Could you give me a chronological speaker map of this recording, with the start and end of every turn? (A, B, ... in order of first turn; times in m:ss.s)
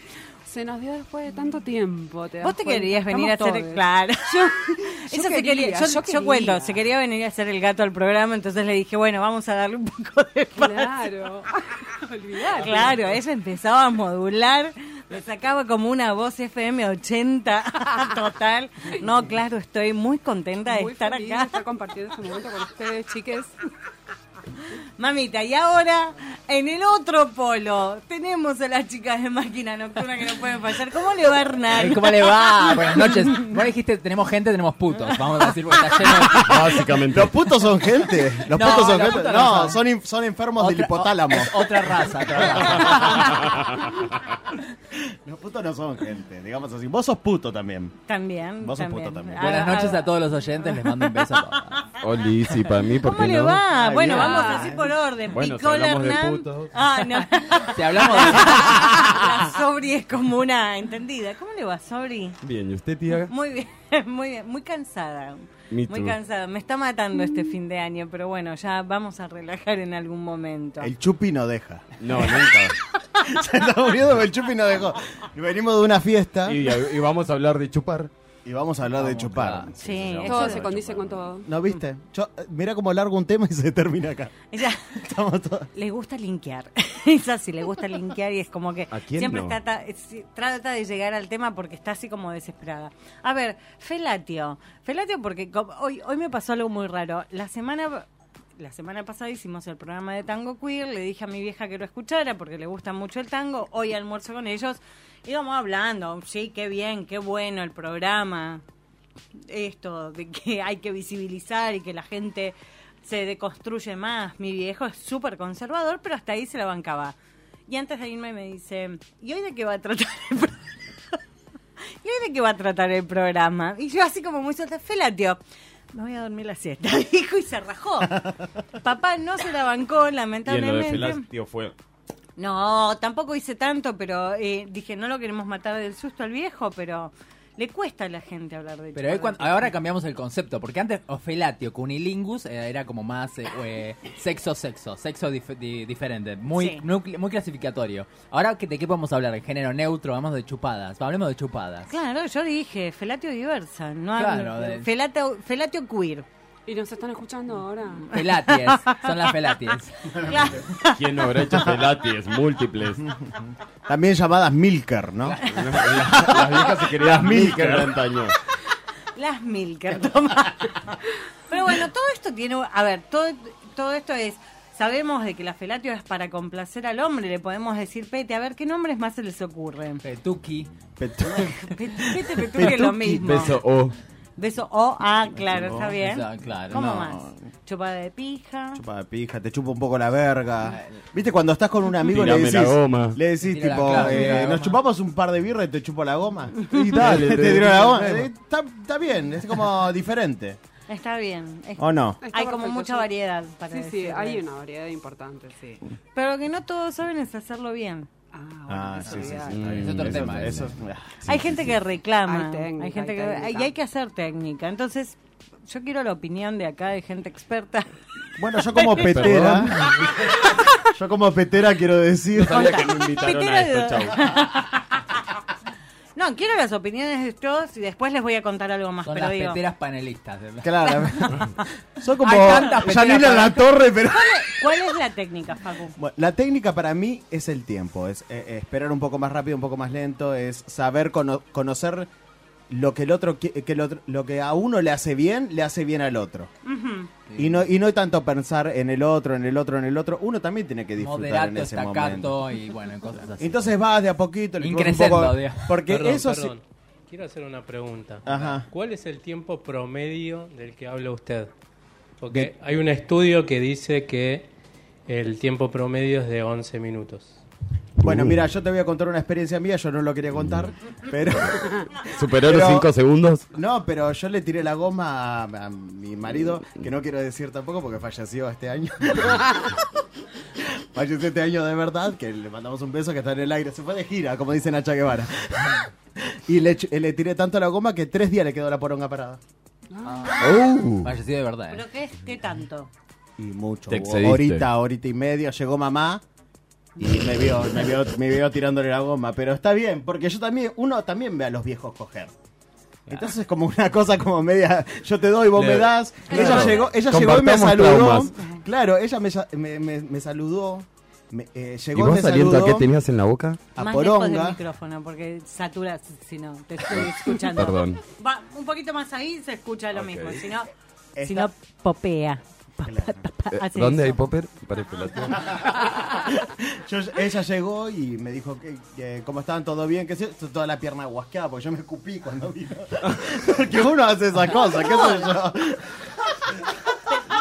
0:00.4-0:06.8 A
0:02.4-0:10.9 B
0:10.6-0:13.0 A
0:12.3-0:21.6 B
0:20.6-0:23.6 A
0:25.0-0:33.3 B
0:31.7-0:36.8 C
0:36.3-0:37.3 D
0:37.1-0:43.4 E
0:38.5-0:39.8 C
0:40.6-0:43.0 C
0:42.9-0:43.8 D
0:44.9-0:47.9 E
0:48.1-0:50.2 B
0:48.6-0:49.9 E
0:49.4-0:51.9 C
0:52.0-0:54.2 D
0:52.8-1:02.4 B
0:53.7-0:54.9 E
0:54.1-0:54.8 A
0:55.3-0:56.7 D
0:57.5-0:59.0 C
1:02.4-1:03.3 D
1:03.3-1:10.9 B
1:05.7-1:06.2 D
1:10.8-1:12.4 E
1:12.0-1:12.8 D
1:13.2-1:16.8 E
1:16.4-1:18.1 D
1:18.4-1:20.1 E
1:18.9-1:19.7 C
1:19.8-1:20.7 B
1:19.8-1:21.3 D
1:20.2-1:21.5 A
1:21.4-1:24.3 E
1:24.5-1:25.0 B
1:24.9-1:25.7 E
1:25.7-1:38.0 B
1:28.9-1:29.6 D
1:38.6-1:48.6 B
1:49.4-2:01.2 B
2:02.0-2:05.4 B
2:05.9-2:11.2 B
2:10.4-2:11.7 D
2:12.4-2:19.7 B
2:18.9-2:31.9 C
2:26.5-2:26.8 B
2:31.9-2:36.2 B
2:34.2-2:34.9 C
2:36.6-2:38.1 A
2:38.1-2:40.0 C
2:38.1-2:39.1 B
2:40.1-2:40.7 E
2:40.2-2:41.3 B
2:41.0-2:43.1 D
2:41.4-2:41.8 E
2:43.9-2:48.0 E
2:45.4-2:48.4 D
2:49.1-3:00.0 B
3:00.0-3:00.7 C
3:01.0-3:03.5 E
3:01.3-3:03.6 B
3:03.2-3:04.0 D
3:04.4-3:08.8 B
3:05.3-3:06.0 E
3:06.0-3:06.9 C
3:06.7-3:07.3 E
3:08.7-3:20.6 E
3:12.1-3:13.2 D
3:13.4-3:14.8 C
3:16.8-3:18.3 D
3:20.9-3:24.4 B
3:21.8-3:22.2 E
3:22.2-3:23.1 A
3:23.7-3:25.8 A
3:26.1-3:28.1 B
3:28.3-3:29.7 A
3:28.7-3:31.7 E
3:29.5-3:30.4 D
3:29.6-3:30.7 C
3:31.2-3:38.0 B
3:32.2-3:33.7 A
3:38.4-3:40.1 E
3:38.7-3:39.4 B
3:38.8-3:40.2 D
3:40.2-3:40.5 B
3:40.8-3:42.8 E
3:42.3-3:44.2 D
3:42.5-3:45.0 B
3:46.2-3:49.6 B
3:49.0-3:50.9 C
3:50.6-3:55.0 E
3:50.9-3:51.4 B
3:52.2-3:53.7 C
3:54.1-3:56.0 B
3:56.0-4:02.1 E
4:02.7-4:06.5 E
4:06.6-4:07.1 B
4:07.3-4:07.7 C
4:07.4-4:12.4 E
4:11.0-4:13.7 C
4:13.4-4:16.6 E
4:14.6-4:15.8 C
4:15.8-4:21.5 F
4:18.2-4:18.7 E
4:22.2-4:24.5 F
4:25.1-4:27.4 F
4:28.0-4:32.9 E
4:28.0-4:28.4 D
4:32.1-4:33.4 D
4:33.5-4:49.4 E
4:49.9-4:50.3 A
4:50.0-4:51.8 C
4:50.4-4:51.1 D
4:51.7-4:52.9 B
4:53.4-4:56.2 E
4:53.9-4:54.7 D
4:57.0-5:02.3 E
5:03.1-5:12.9 E
5:05.6-5:08.3 D
5:06.3-5:06.9 B
5:11.9-5:13.6 D
5:13.7-5:14.6 E
5:13.8-5:20.7 B
5:16.9-5:18.0 D
5:19.9-5:20.4 D
5:21.2-5:21.5 E
5:21.2-5:24.2 B
5:22.8-5:23.3 E
5:23.5-5:25.7 D
5:25.3-5:36.6 E